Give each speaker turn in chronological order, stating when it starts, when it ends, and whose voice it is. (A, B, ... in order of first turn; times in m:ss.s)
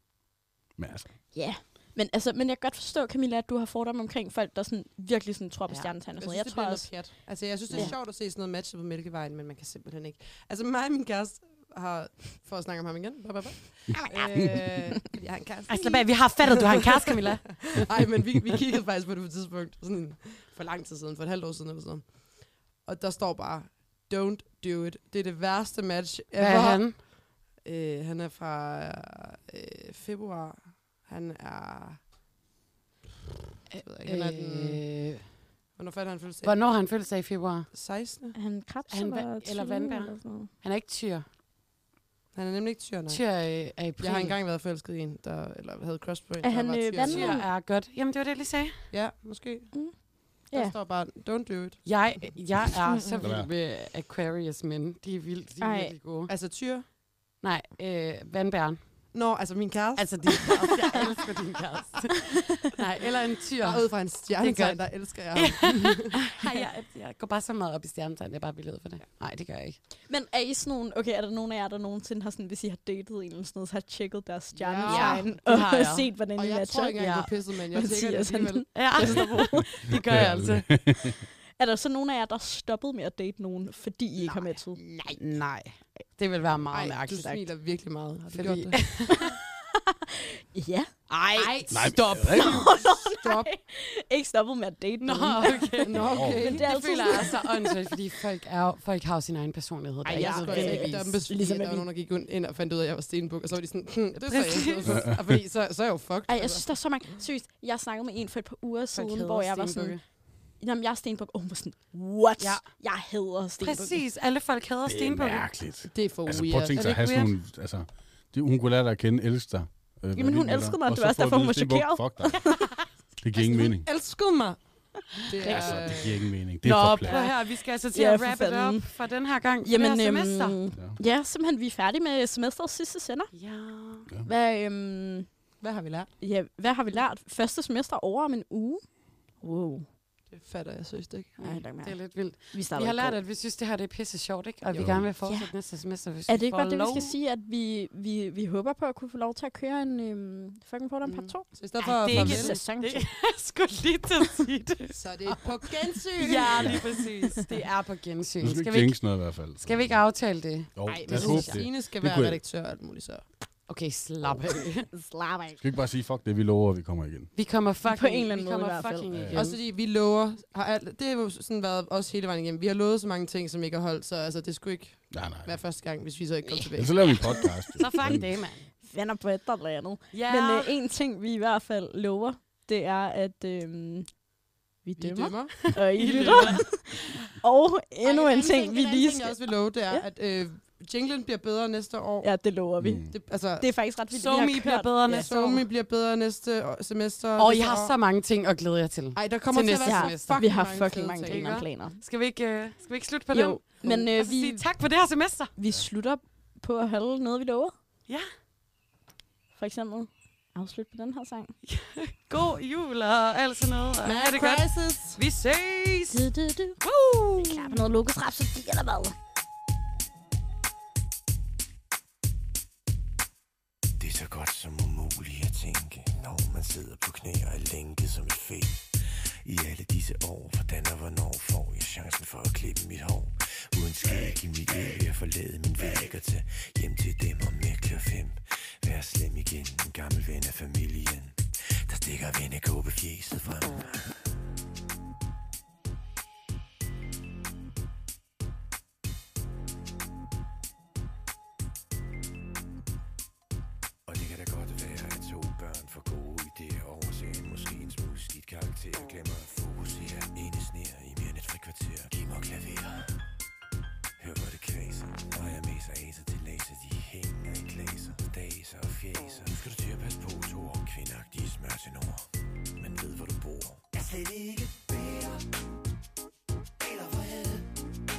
0:00.8-0:01.1 A
0:01.3-0:06.9 B
0:05.7-0:05.9 C
0:06.2-0:16.8 D
0:15.7-0:17.8 C
0:17.6-0:22.1 D
0:22.8-0:27.0 D
0:26.4-0:27.0 C
0:27.6-0:32.0 D
0:33.7-0:35.3 C
0:33.7-0:34.8 D
0:35.8-0:36.6 D
0:36.4-0:37.7 C
0:37.7-0:38.4 D
0:38.3-0:40.5 B
0:38.9-0:41.3 C
0:42.4-0:43.2 D
0:43.1-0:44.4 C
0:44.0-0:47.4 D
0:46.4-0:47.5 B
0:47.0-0:48.9 C
0:48.9-0:49.7 D
0:50.5-0:51.9 D
0:51.9-0:56.3 C
0:52.9-0:53.2 B
0:53.2-0:53.5 A
0:55.6-0:55.9 B
0:56.3-0:56.9 D
0:57.4-0:58.8 C
0:59.1-1:01.2 D
1:00.0-1:09.8 C
1:03.6-1:06.2 D
1:10.1-1:17.2 B
1:14.5-1:15.6 D
1:14.8-1:16.1 C
1:16.4-1:18.8 D
1:17.0-1:17.3 C
1:17.7-1:19.7 B
1:18.7-1:20.8 C
1:19.8-1:21.2 A
1:21.6-1:24.8 B
1:24.8-1:25.2 D
1:25.2-1:27.5 C
1:26.7-1:28.8 D
1:28.3-1:29.4 C
1:29.1-1:30.9 B
1:31.1-1:31.6 D
1:31.3-1:32.5 C
1:31.7-1:32.7 A
1:32.3-1:37.8 B
1:32.6-1:33.5 D
1:35.0-1:41.2 C
1:35.8-1:36.7 D
1:36.0-1:36.6 A
1:40.1-1:46.7 D
1:40.1-1:41.9 B
1:44.2-1:45.1 C
1:46.3-1:50.0 B
1:48.9-1:50.0 C
1:50.6-1:54.0 B
1:52.4-1:52.7 C
1:53.6-1:55.5 C
1:54.9-2:02.4 A
1:55.9-1:56.9 D
1:56.8-1:57.3 C
2:00.2-2:02.7 B
2:03.2-2:03.9 A
2:03.4-2:04.6 D
2:05.2-2:06.2 D
2:05.4-2:05.9 B
2:05.4-2:07.2 A
2:06.6-2:10.6 C
2:07.9-2:08.8 B
2:09.6-2:13.3 B
2:13.3-2:14.1 C
2:14.3-2:15.3 B
2:15.6-2:16.1 D
2:16.2-2:18.8 B
2:19.4-2:19.8 B
2:20.3-2:21.6 D
2:21.4-2:22.0 B
2:21.8-2:27.1 C
2:22.5-2:23.2 B
2:24.8-2:25.1 A
2:25.2-2:25.5 B
2:26.3-2:33.1 B
2:31.0-2:32.6 D
2:31.8-2:35.6 C
2:34.9-2:36.9 D
2:36.2-2:39.0 C
2:36.5-2:36.8 A
2:38.4-2:40.0 A
2:39.6-2:41.6 C
2:40.8-2:42.4 A
2:40.9-2:43.2 D
2:43.7-2:44.9 C
2:44.9-2:45.6 B
2:45.6-2:47.3 A
2:47.4-2:49.6 C
2:47.9-2:49.1 B
2:49.2-2:49.4 A
2:49.3-2:57.5 D
2:55.1-2:55.6 A
2:56.8-2:58.3 A
2:57.8-2:58.7 C
2:58.8-3:04.1 B
3:00.1-3:00.8 C
3:04.8-3:10.0 B
3:05.0-3:05.6 D
3:05.8-3:06.7 C
3:06.2-3:06.5 D
3:08.0-3:12.3 D
3:12.2-3:15.3 B
3:12.8-3:13.1 A
3:13.1-3:13.7 D
3:14.1-3:15.7 C
3:15.1-3:18.0 D
3:17.4-3:20.6 C
3:19.2-3:21.6 D
3:19.8-3:22.0 B
3:21.2-3:25.5 C
3:23.3-3:24.6 B
3:25.6-3:27.7 B
3:29.6-3:31.5 B
3:31.6-3:36.3 C
3:34.0-3:35.2 D
3:36.1-3:36.8 B
3:36.8-3:37.9 C
3:37.4-3:39.2 B
3:44.0-4:04.3 E
4:14.1-4:23.2 E
4:24.2-4:35.5 E
4:36.8-4:37.8 E